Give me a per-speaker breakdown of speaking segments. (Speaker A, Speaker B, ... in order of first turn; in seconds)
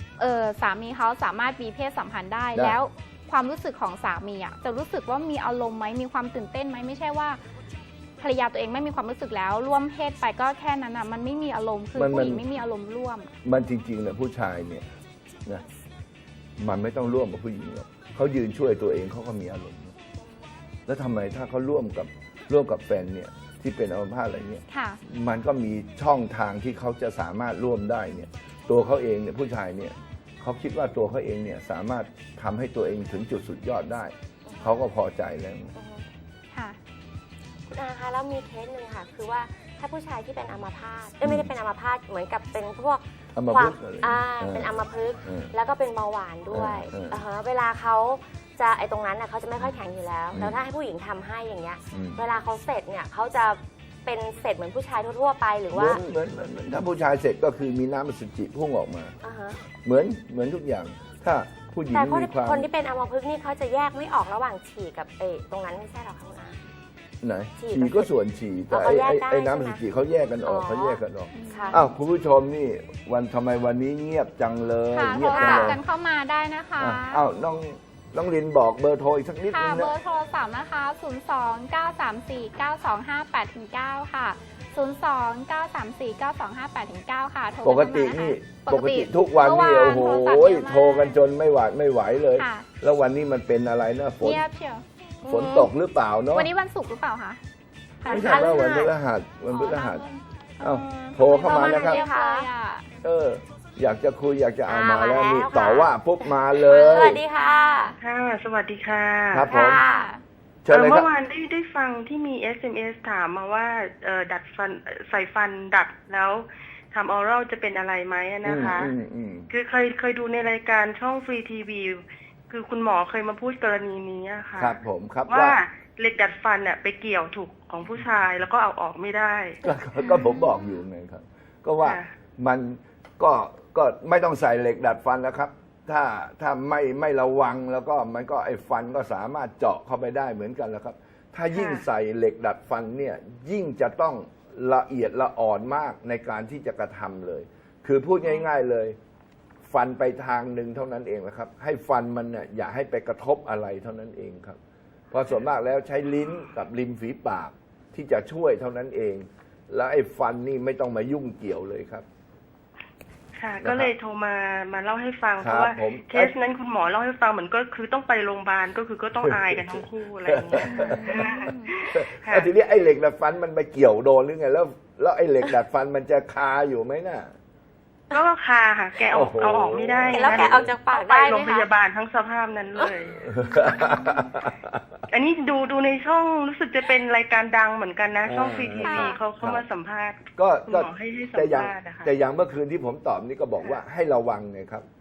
Speaker A: 0.2-7.4, 8.2-13.3, 24.7-25.0, 36.5-36.8, 71.3-71.9, 74.9-77.2, 79.5-91.2, 92.3-92.7, 94.2-94.8, 96.3-97.4, 98.0-98.9, 99.5-102.9, 107.1-107.9, 109.5-110.2, 130.0-130.7, 170.6-171.7, 188.8-189.2
Speaker B: 2.5-2.8, 11.9-12.5, 13.4-14.9, 16.6-19.9, 20.9-35.8, 41.2-41.5, 43.4-45.5, 46.5-47.2, 50.3-50.6, 51.9-52.2, 55.7-59.2, 59.8-62.7, 67.2-75.8, 76.8-79.9, 87.6-94.4, 95.3-96.5, 98.1-100.0, 100.6-102.0, 103.0-107.2, 109.3-109.8, 110.7-111.1, 118.5-119.5, 124.6-125.6, 129.6-149.0, 149.6-154.6, 155.1-162.1, 163.6-163.9, 165.4-166.3, 169.2-177.3, 179.1-180.7, 183.2-184.9, 188.2-189.6, 190.4-194.8
Speaker C: 20.2-20.5, 34.5-34.9, 35.8-36.1, 37.7-56.0, 59.2-59.6, 61.9-66.6, 67.6-68.1, 68.7-69.8, 70.4-71.9, 75.2-75.8, 95.2-95.7, 98.1-98.9, 101.4-102.5, 104.7-108.0, 109.5-110.1, 180.1-181.7
Speaker D: 108.0-109.8, 110.7-118.9, 119.5-129.6, 131.8-132.1, 141.5-141.8, 163.4-172.5, 178.1-184.0, 185.1-192.1